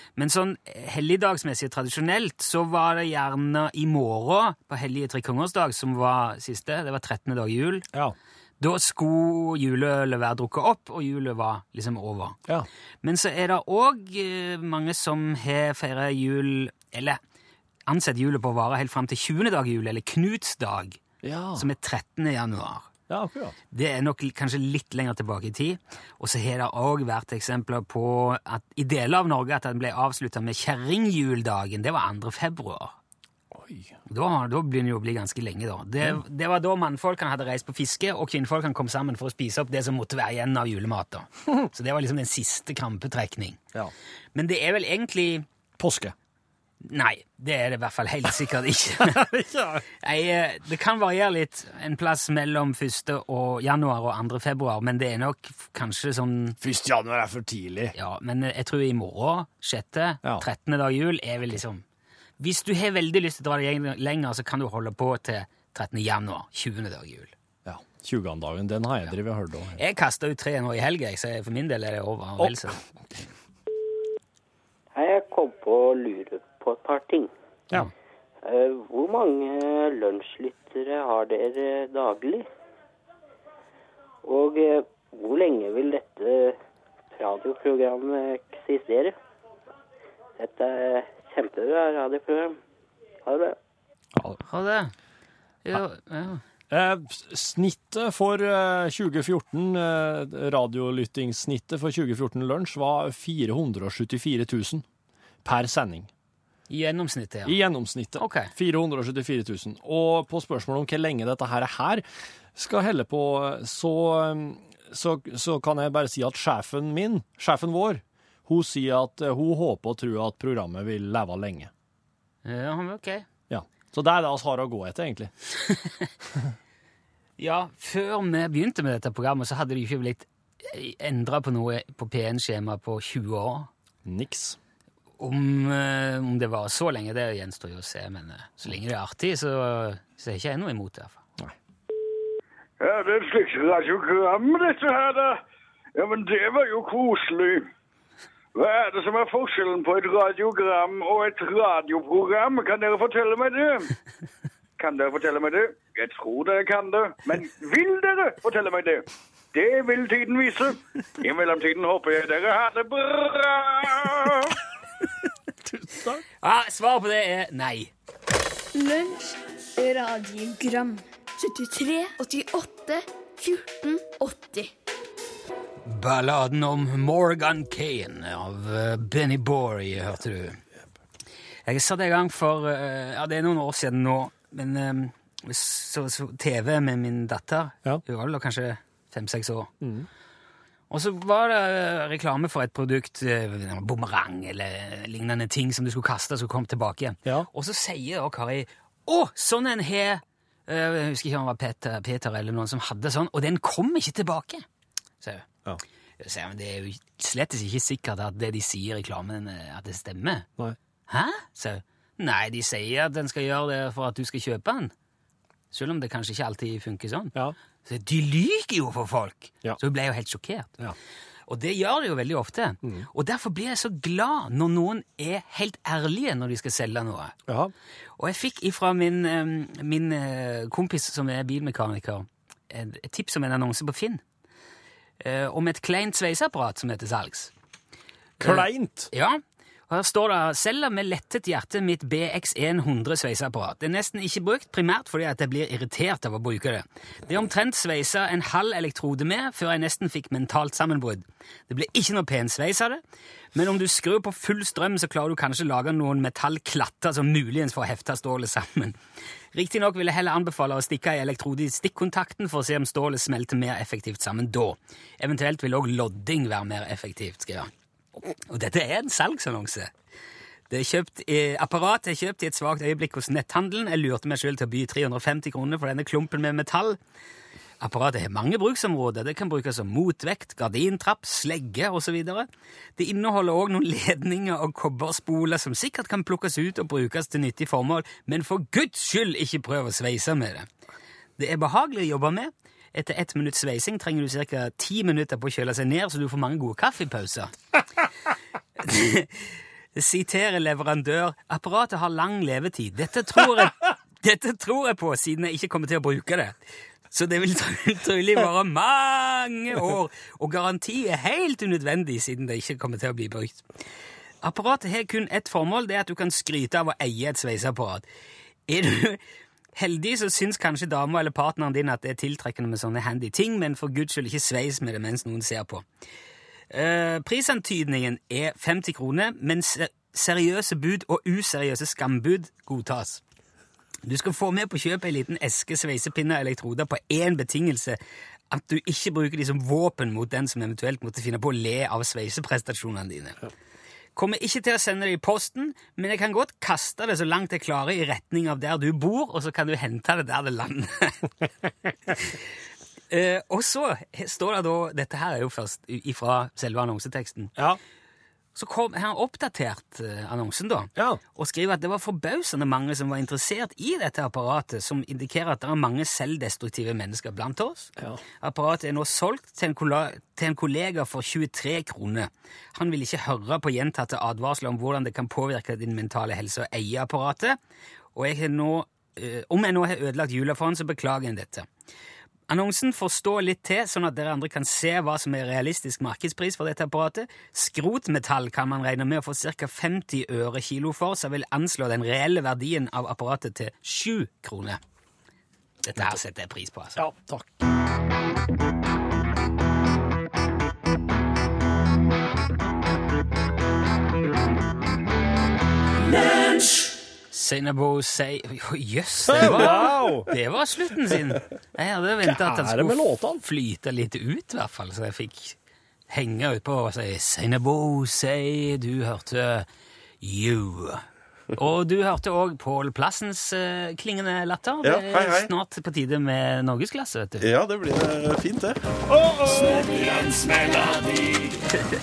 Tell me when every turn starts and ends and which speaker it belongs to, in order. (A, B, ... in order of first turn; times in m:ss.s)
0:00.2-0:07.9 A
0:08.6-0:12.4 A
0:13.0-0:17.2 A
0:17.9-0:21.0 A
0:21.2-0:21.7 B
0:21.6-0:22.9 A
0:23.1-0:23.6 B
0:23.7-0:33.0 A
0:33.5-0:33.9 B
0:34.1-0:43.6 A
0:44.4-0:45.4 A
0:45.8-0:46.1 B
0:46.8-0:49.3 A
0:49.0-0:49.8 B
0:50.0-0:56.6 A
0:56.6-0:57.9 B
0:58.0-1:01.8 A
1:02.4-1:07.3 A
1:07.6-1:09.8 B
1:09.8-1:13.3 A
1:12.4-1:12.8 B
1:14.9-1:17.3 C
1:18.4-1:22.5 C
1:24.2-1:26.6 C
1:27.1-1:29.2 C
1:30.4-1:32.6 C
1:33.2-1:33.6 C
1:34.4-1:34.9 A
1:35.6-1:36.4 A
1:36.7-1:44.8 B
1:45.4-1:46.1 B
1:46.7-1:47.6 A
1:47.4-2:01.7 B
1:48.2-1:48.5 A
2:02.4-2:03.2 A
2:03.5-2:05.3 B
2:07.4-2:13.7 A
2:14.0-2:14.6 B
2:15.2-2:21.2 A
2:22.8-2:25.4 D
2:26.0-2:27.7 D
2:28.6-2:33.9 D
2:34.8-2:44.6 D
2:45.6-2:46.2 B
2:46.4-2:47.9 A
2:48.7-2:54.7 E
2:55.8-3:00.6 A
3:01.7-3:09.7 A
3:09.8-3:10.1 B
3:10.9-3:24.6 A
3:26.2-3:30.5 A
3:31.1-3:34.9 A
3:35.7-3:40.8 A
3:41.5-3:47.4 A
3:42.8-3:43.1 B
3:47.5-3:47.7 B
3:48.2-3:54.2 A
3:55.2-3:57.5 A
3:58.4-4:13.0 A
3:58.4-3:59.1 B
4:13.5-4:19.0 A
4:19.5-4:27.7 A
4:28.4-4:29.9 A
4:30.7-4:37.0 A
4:37.8-4:50.7 A
4:51.4-4:57.5 A
4:58.8-5:06.6 A
5:07.1-5:13.7 A
5:14.4-5:18.0 A
5:18.7-5:19.2 A
5:19.8-5:25.8 A
5:26.7-5:33.2 A
5:34.0-5:38.0 A
5:38.5-5:43.4 A
5:44.2-5:51.3 A
5:52.1-5:52.4 A
5:53.1-5:57.5 A
5:58.6-6:17.6 A
6:01.0-6:01.2 B
6:18.2-6:21.7 A
6:22.5-6:34.8 A
6:35.8-6:37.0 A
6:37.0-6:37.7 B
6:47.3-6:55.6 A
6:49.3-6:50.3 B
6:52.2-6:53.4 B
6:56.1-6:59.7 A
7:00.2-7:01.0 A
7:01.6-7:07.5 A
7:04.8-7:05.5 F
7:07.4-7:09.0 F
7:09.1-7:11.6 B